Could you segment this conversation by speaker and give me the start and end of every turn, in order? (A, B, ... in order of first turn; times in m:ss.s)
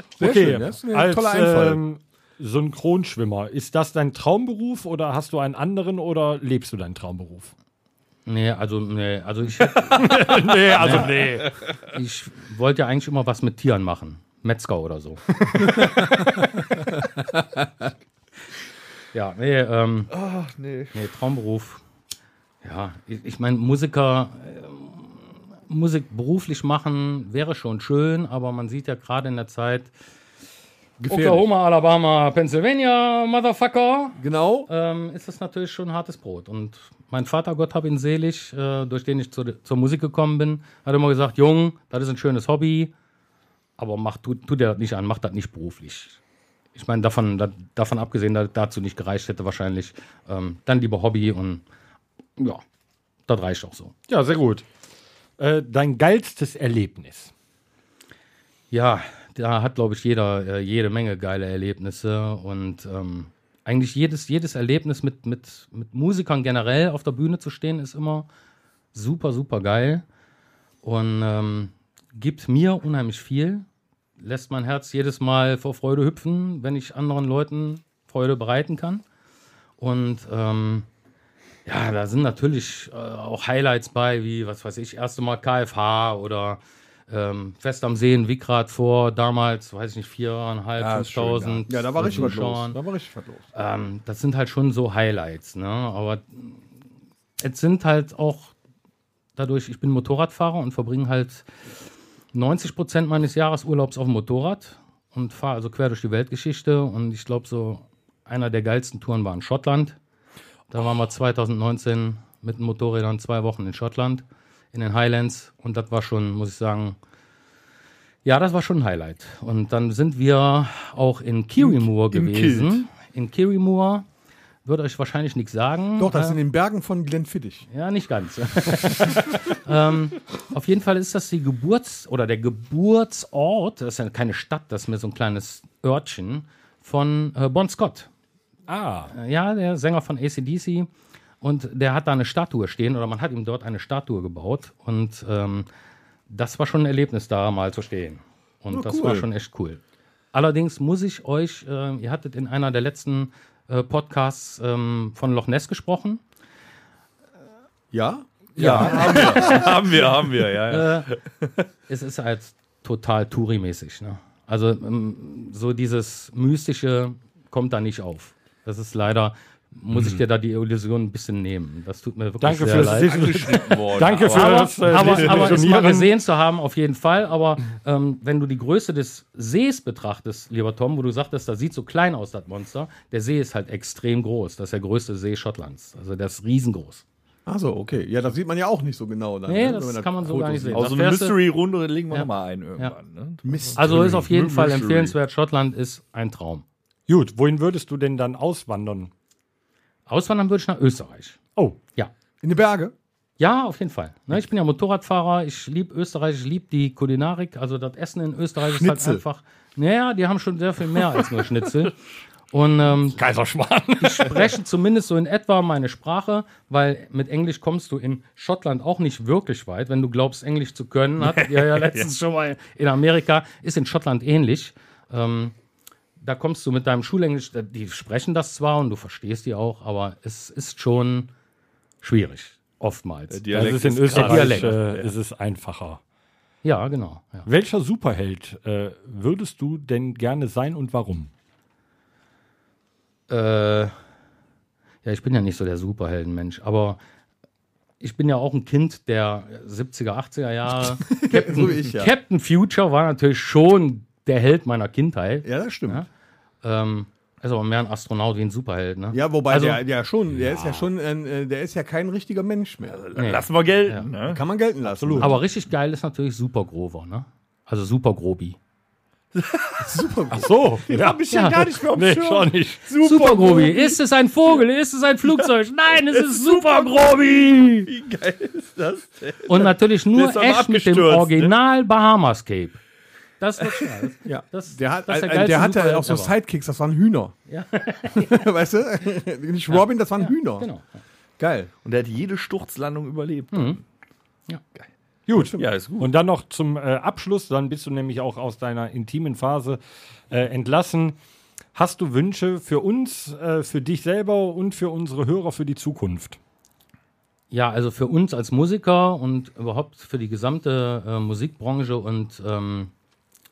0:00.2-0:01.8 A
0:00.2-0:07.5 B
0:08.2-0:11.1 C
0:09.9-0:11.5 B
0:10.7-0:11.5 D
0:11.9-0:15.8 C
0:19.1-0:20.1 C
0:20.1-0:20.9 D
0:20.9-0:21.8 C
0:22.6-0:29.9 C
0:31.0-0:31.5 A
0:31.1-0:42.9 C
0:34.2-0:34.7 A
0:43.8-0:46.2 C
0:46.7-0:51.6 C
0:52.4-0:52.6 C
0:53.3-0:53.9 C
0:54.1-0:54.6 B
0:55.4-0:57.3 B
0:58.7-1:08.3 C
1:08.9-1:10.0 C
1:10.8-1:13.6 C
1:14.2-1:19.0 C
1:19.8-1:20.9 C
1:21.6-1:32.8 C
1:30.8-1:32.3 D
1:31.7-1:33.4 A
1:33.5-1:36.6 C
1:37.4-1:38.5 C
1:39.4-1:41.4 C
1:42.3-1:50.0 C
1:50.7-1:57.0 C
1:58.2-2:04.0 C
2:01.6-2:02.8 D
2:04.6-2:06.4 C
2:06.0-2:07.6 A
2:07.7-2:18.1 C
2:18.7-2:19.1 B
2:19.1-2:20.9 C
2:21.4-2:25.6 C
2:26.3-2:29.8 C
2:28.7-2:29.3 A
2:30.3-2:36.2 C
2:37.9-2:40.0 A
2:38.6-2:41.5 D
2:38.6-2:39.5 C
2:40.7-2:41.1 C
2:41.9-3:07.0 C
2:49.9-2:50.2 B
2:52.4-2:56.1 B
2:52.8-2:55.6 D
3:07.4-3:10.9 A
3:09.5-3:11.4 C
3:10.7-3:15.2 D
3:12.1-3:12.9 C
3:13.4-3:14.4 A
3:13.8-3:16.6 C
3:17.1-3:19.1 B
3:20.1-3:21.4 C
3:22.4-3:22.9 A
3:23.4-3:31.9 C
3:28.6-3:29.2 A
3:32.5-3:33.2 C
3:33.1-3:34.5 B
3:34.0-3:45.5 C
3:41.2-3:42.1 D
3:46.2-3:51.3 C
3:52.0-3:54.7 C
3:53.3-3:55.1 D
3:53.5-3:56.0 B
3:56.6-3:57.5 C
3:57.4-4:01.3 B
4:03.3-4:03.9 C
4:05.0-4:07.0 C
4:08.0-4:16.1 C
4:10.9-4:12.1 A
4:15.4-4:16.0 A
4:16.6-4:19.8 C
4:19.1-4:23.0 A
4:22.9-4:24.4 D
4:23.2-4:24.1 C
4:24.2-4:25.4 A
4:24.9-4:25.4 B
4:25.2-4:28.6 C
4:29.3-4:30.0 D
4:29.8-4:30.5 A
4:30.3-4:32.8 B
4:30.9-4:34.0 D
4:31.3-4:31.6 C
4:33.0-4:37.9 C
4:35.9-4:37.2 D
4:37.9-4:41.5 D
4:39.5-4:42.8 C
4:43.4-4:46.3 C
4:44.2-4:47.3 A
4:47.5-4:48.4 C
4:48.1-4:50.7 A
4:49.7-4:50.9 C
4:51.4-4:51.7 A
4:51.8-4:53.8 D
4:53.5-4:53.8 C
4:55.3-5:01.2 B
4:55.3-4:55.6 A
4:55.6-4:56.1 D
5:01.7-5:06.4 B
5:07.5-5:12.9 C